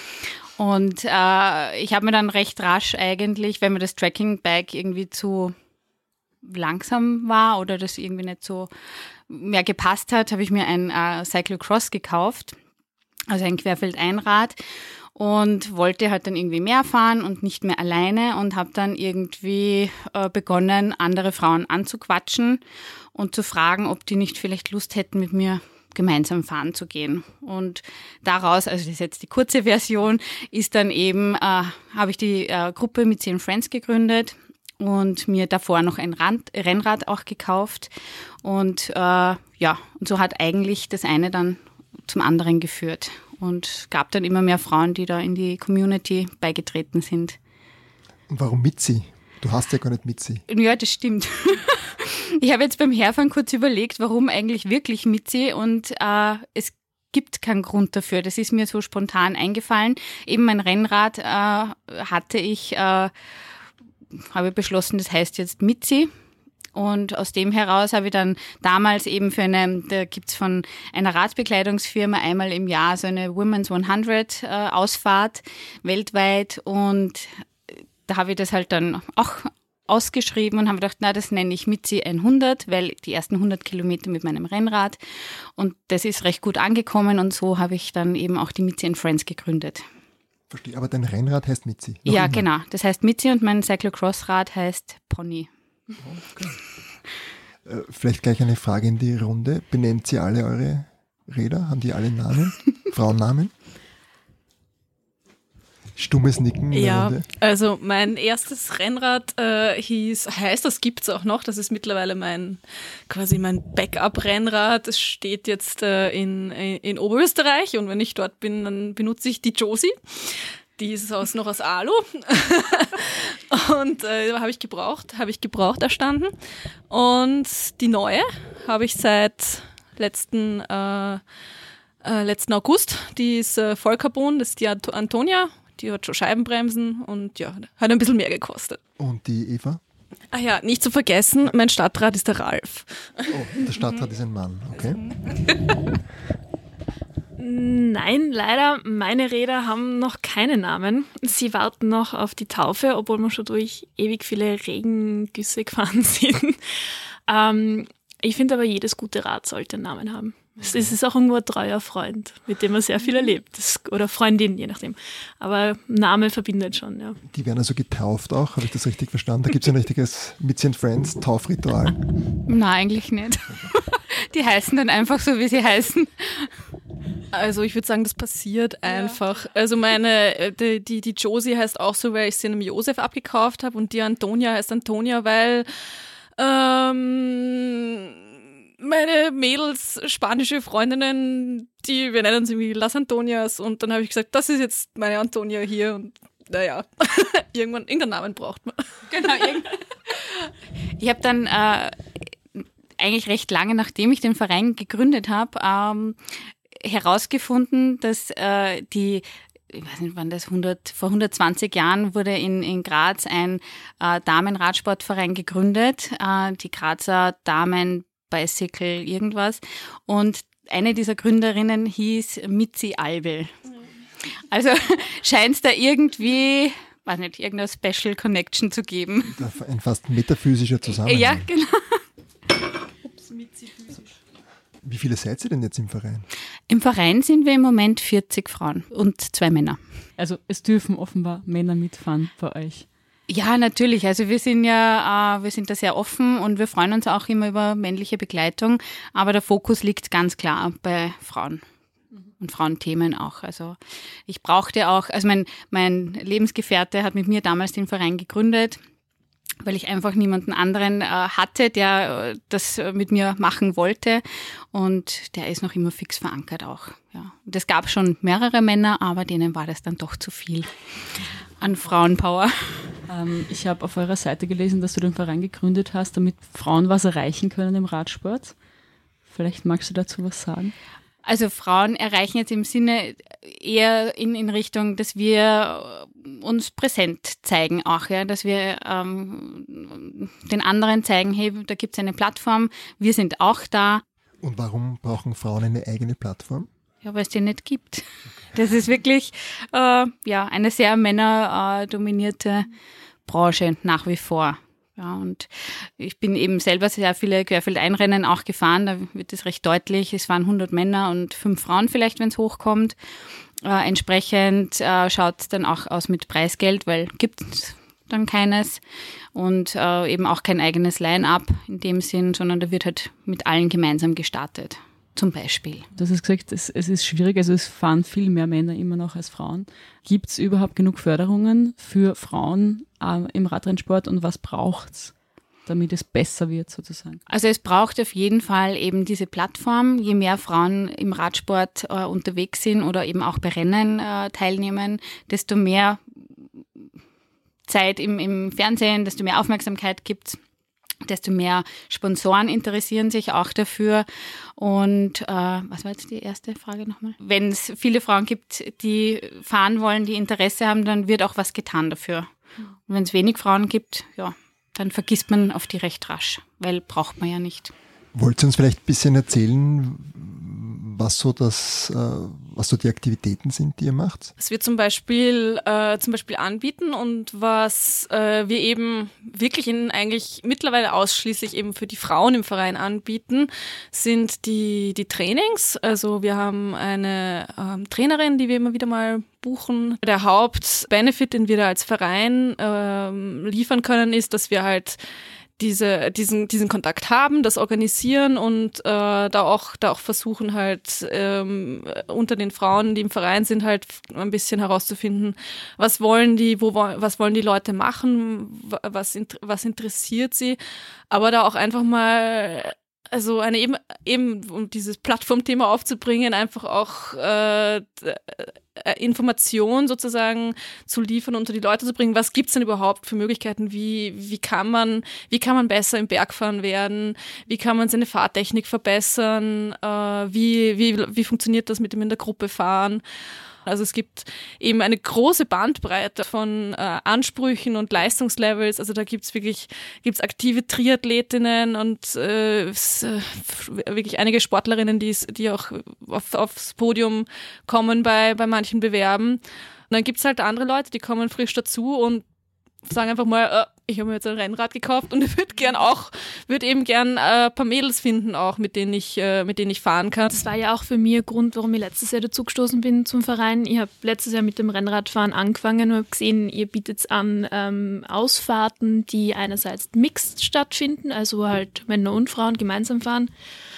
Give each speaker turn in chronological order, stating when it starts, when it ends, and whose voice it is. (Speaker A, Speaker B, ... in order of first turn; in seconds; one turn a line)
Speaker A: 0.2-5.5
Speaker A: 6.4-8.7
Speaker A: 9.3-12.6
Speaker A: 13.3-14.6
Speaker A: 15.1-22.6
Speaker A: 23.1-37.9
Speaker A: 38.4-47.4
Speaker B: 48.3-50.4
Speaker A: 50.5-63.1
Speaker A: 64.3-66.1
Speaker A: 66.7-85.0
Speaker A: 85.5-89.8
Speaker B: 90.5-92.4
Speaker A: 92.0-95.5
Speaker B: 96.0-96.6
Speaker B: 97.6-103.5
Speaker B: 106.0-107.2
Speaker C: 106.7-126.3
Speaker C: 126.9-131.2
Speaker C: 132.0-138.8
Speaker B: 139.0-139.8
Speaker C: 140.3-143.3
Speaker B: 143.3-145.0
Speaker D: 147.4-167.2
Speaker B: 160.6-160.9
Speaker B: 167.2-172.1
Speaker A: 172.5-176.5
Speaker C: 177.3-185.7
Speaker C: 186.3-199.1
Speaker A: 199.1-223.5
Speaker A: 224.2-229.4
Speaker B: 229.3-231.4
Speaker A: 231.0-232.0
Speaker B: 234.8-236.3
Speaker A: 236.7-239.8
Speaker E: 240.2-242.8
Speaker A: 243.3-251.6
Speaker A: 252.4-258.8
Speaker A: 259.6-270.7
Speaker A: 271.6-272.9
Speaker E: 273.1-278.5
Speaker E: 279.3-280.7
Speaker A: 281.2-294.0
Speaker B: 294.4-296.7
Speaker A: 297.0-302.7
Speaker A: 303.2-312.9
Speaker A: 313.6-318.8
Speaker A: 319.3-325.9
Speaker E: 325.9-335.1
Speaker E: 335.6-337.2
Speaker A: 337.3-346.2
Speaker A: 347.7-350.4
Speaker A: 351.0-354.1
Speaker A: 354.6-362.3
Speaker A: 362.9-367.7
Speaker B: 368.1-374.3
Speaker C: 374.4-395.0
Speaker C: 395.6-410.6
Speaker C: 411.1-433.0
Speaker C: 433.6-452.2
Speaker C: 452.8-460.4
Speaker D: 460.3-473.3